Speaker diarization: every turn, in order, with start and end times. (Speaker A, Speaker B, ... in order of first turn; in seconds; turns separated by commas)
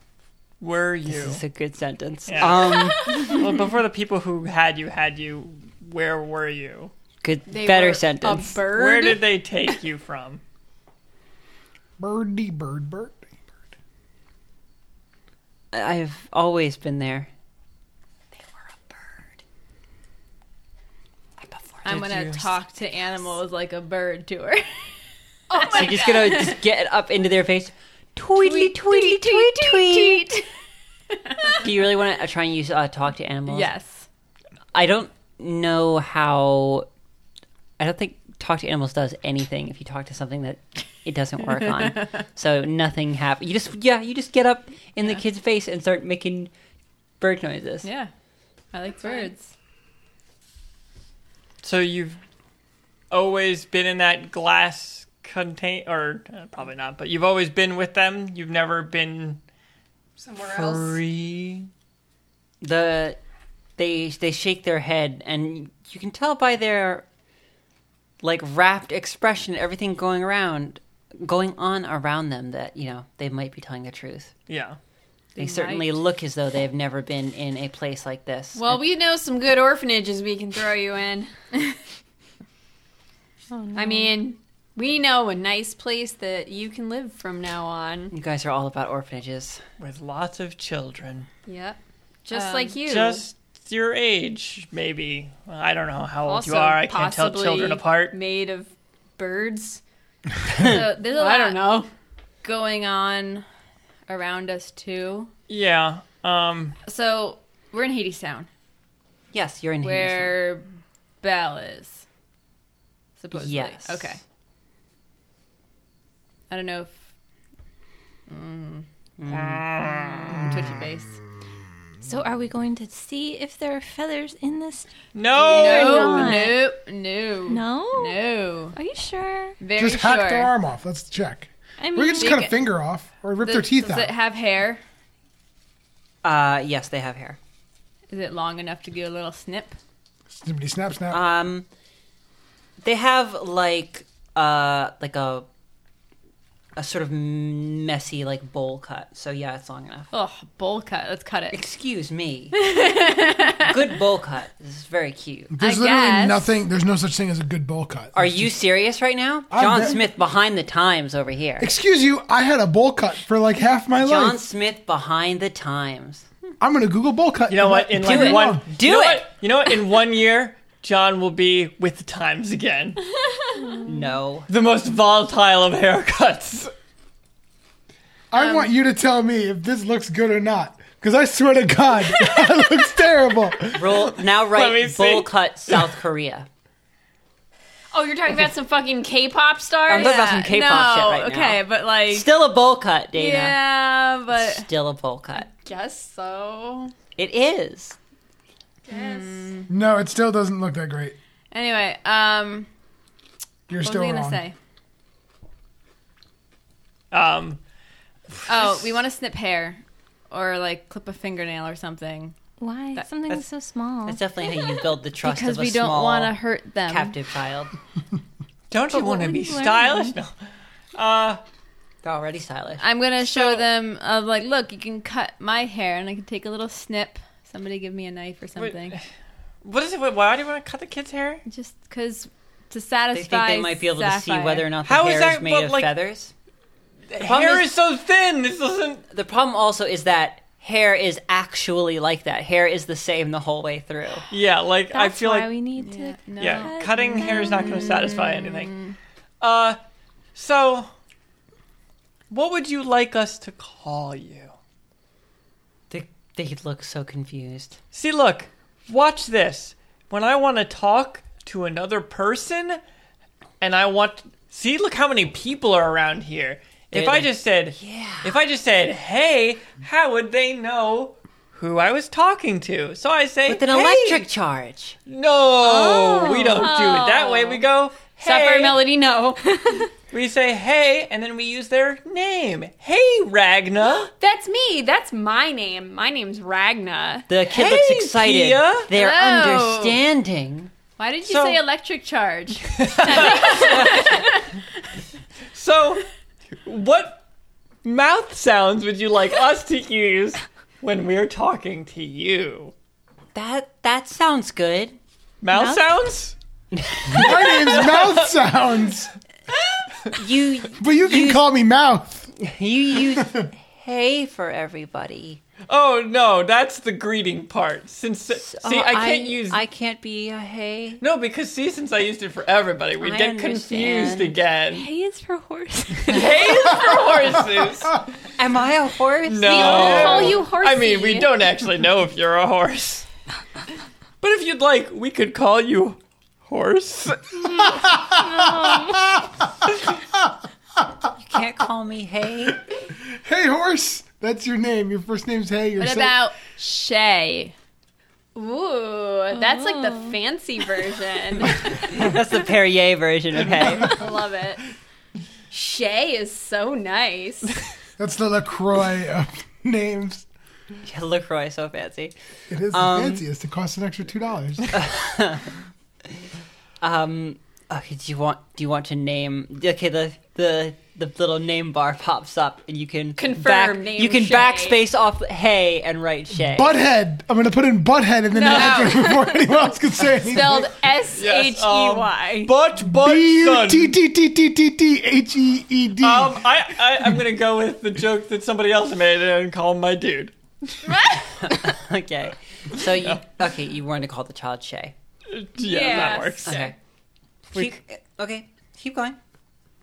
Speaker A: 0.6-1.4, Speaker B: 1.1-3.3, Speaker A: 2.3-6.9, Speaker B: 7.2-8.6, Speaker C: 7.5-9.2, Speaker A: 8.7-10.4, Speaker D: 12.0-13.3, Speaker B: 15.7-17.3, Speaker B: 21.4-22.1, Speaker E: 21.8-24.9, Speaker A: 21.8-22.5, Speaker C: 25.5-26.6, Speaker E: 25.6-26.5, Speaker B: 25.7-30.4, Speaker C: 28.6-30.2, Speaker B: 31.6-33.7, Speaker E: 33.5-34.0, Speaker B: 34.7-36.9, Speaker B: 37.8-46.5, Speaker B: 47.2-47.9, Speaker E: 47.8-48.1, Speaker E: 48.7-49.5, Speaker C: 49.0-49.3, Speaker A: 51.6-52.2, Speaker A: 53.1-59.4, Speaker C: 60.2-61.0, Speaker A: 60.4-61.7, Speaker B: 62.6-63.2, Speaker B: 63.8-67.0, Speaker B: 68.2-74.3, Speaker A: 74.5-74.8, Speaker E: 75.3-75.9, Speaker B: 75.3-78.8, Speaker C: 78.5-81.3, Speaker F: 83.5-84.2, Speaker C: 83.7-88.1, Speaker B: 88.1-89.6, Speaker A: 89.8-91.3, Speaker C: 91.5-93.2, Speaker E: 92.3-92.8, Speaker A: 92.8-98.1, Speaker C: 96.2-99.8, Speaker C: 100.5-101.9, Speaker E: 100.6-101.8, Speaker E: 102.4-103.4, Speaker E: 104.1-105.3, Speaker A: 105.5-106.8, Speaker E: 106.8-108.5, Speaker B: 109.3-110.4, Speaker E: 109.8-110.6, Speaker E: 111.2-112.0, Speaker E: 113.2-114.2, Speaker B: 113.3-114.2, Speaker E: 116.5-117.0, Speaker E: 118.3-118.8, Speaker B: 119.2-120.2, Speaker A: 119.3-120.5, Speaker E: 120.3-121.2, Speaker F: 122.0-126.6, Speaker A: 125.1-126.5, Speaker E: 125.4-128.8, Speaker C: 125.5-126.3, Speaker F: 127.5-128.2, Speaker F: 128.7-129.6, Speaker E: 129.6-130.5, Speaker D: 129.7-134.1, Speaker F: 131.8-132.5, Speaker E: 132.2-132.5, Speaker E: 133.4-134.8, Speaker B: 136.2-137.4, Speaker E: 138.1-139.8, Speaker D: 140.3-141.2, Speaker B: 141.1-141.7, Speaker B: 142.8-145.5, Speaker B: 146.8-150.1, Speaker E: 150.1-151.6, Speaker B: 151.5-152.6, Speaker E: 152.5-153.7, Speaker B: 153.6-155.5, Speaker D: 155.5-158.5, Speaker E: 155.6-156.5, Speaker B: 158.1-161.7, Speaker D: 159.5-160.0, Speaker D: 161.6-164.4, Speaker B: 164.0-166.2, Speaker D: 166.6-168.6, Speaker A: 167.5-173.0, Speaker B: 168.0-169.3, Speaker B: 173.8-174.5, Speaker A: 174.5-176.7, Speaker D: 178.3-183.9, Speaker B: 183.8-186.5, Speaker A: 183.8-185.9, Speaker C: 187.9-190.3, Speaker B: 189.9-193.6, Speaker E: 189.9-192.3, Speaker E: 193.1-194.7, Speaker B: 194.3-195.5, Speaker C: 195.5-196.9, Speaker B: 197.2-198.0, Speaker C: 198.9-199.6, Speaker E: 198.9-199.7, Speaker D: 199.7-201.2, Speaker E: 201.5-202.7, Speaker D: 203.7-204.4, Speaker E: 203.8-204.5, Speaker A: 207.1-207.6, Speaker A: 208.3-209.0, Speaker E: 208.5-212.3, Speaker F: 212.6-214.2, Speaker B: 214.0-217.7, Speaker E: 215.2-217.1, Speaker A: 218.7-220.3, Speaker F: 218.9-220.2, Speaker A: 220.9-221.4, Speaker B: 222.0-222.8, Speaker E: 222.8-229.0, Speaker A: 223.2-223.7, Speaker A: 228.6-229.0, Speaker A: 229.6-231.4, Speaker E: 231.4-234.7, Speaker B: 233.1-236.3, Speaker A: 234.8-235.9, Speaker A: 237.1-239.0, Speaker B: 237.2-237.7, Speaker B: 239.1-244.2, Speaker A: 244.3-245.6, Speaker F: 244.9-248.0, Speaker E: 245.8-248.9, Speaker A: 246.4-248.8, Speaker A: 249.4-249.8, Speaker A: 250.3-250.9, Speaker A: 252.3-254.5, Speaker B: 255.9-257.8, Speaker A: 257.9-262.8, Speaker A: 263.6-274.2, Speaker B: 266.9-268.4, Speaker B: 273.5-275.0, Speaker A: 275.1-278.8, Speaker F: 275.6-276.6, Speaker C: 276.5-277.6, Speaker C: 278.2-279.5, Speaker A: 280.1-284.1, Speaker C: 284.2-287.2, Speaker B: 287.3-290.7, Speaker A: 287.5-288.9, Speaker E: 288.9-290.0, Speaker E: 291.0-294.5, Speaker A: 291.2-291.6, Speaker A: 292.8-294.1, Speaker A: 295.5-296.1, Speaker A: 296.6-297.2, Speaker A: 297.8-302.7, Speaker B: 303.3-305.0, Speaker A: 305.4-306.3, Speaker F: 305.5-305.9, Speaker B: 306.7-307.7, Speaker D: 307.1-309.1, Speaker A: 307.1-308.3, Speaker B: 310.1-311.4, Speaker D: 310.8-312.3, Speaker B: 312.4-315.4, Speaker D: 313.2-313.5, Speaker A: 315.7-319.6, Speaker B: 318.4-321.0, Speaker A: 321.0-324.9, Speaker B: 323.0-324.3, Speaker F: 324.7-327.1, Speaker A: 326.1-328.1, Speaker B: 328.4-330.4, Speaker A: 329.2-333.1, Speaker C: 329.5-331.3, Speaker A: 334.2-337.4, Speaker F: 337.4-339.0, Speaker D: 337.7-339.2, Speaker B: 341.2-342.6, Speaker D: 343.2-346.3, Speaker E: 345.8-347.5, Speaker C: 348.4-352.0, Speaker E: 349.3-351.9, Speaker F: 349.4-350.1, Speaker B: 351.8-354.0, Speaker C: 353.8-354.6, Speaker C: 355.5-357.4, Speaker D: 358.0-360.2, Speaker B: 360.8-362.1, Speaker D: 362.5-364.7, Speaker B: 362.7-363.2, Speaker B: 364.7-365.5, Speaker B: 366.8-376.7, Speaker C: 373.2-374.8, Speaker D: 376.4-380.8, Speaker C: 378.3-379.2, Speaker E: 378.4-379.2, Speaker C: 380.3-382.5, Speaker A: 381.1-383.9, Speaker D: 382.8-386.6, Speaker A: 386.0-390.3, Speaker C: 390.9-391.3, Speaker B: 391.4-394.9, Speaker A: 392.8-393.2, Speaker A: 395.3-396.7, Speaker C: 395.6-396.7, Speaker E: 395.6-396.3, Speaker B: 396.4-396.7, Speaker B: 397.5-399.2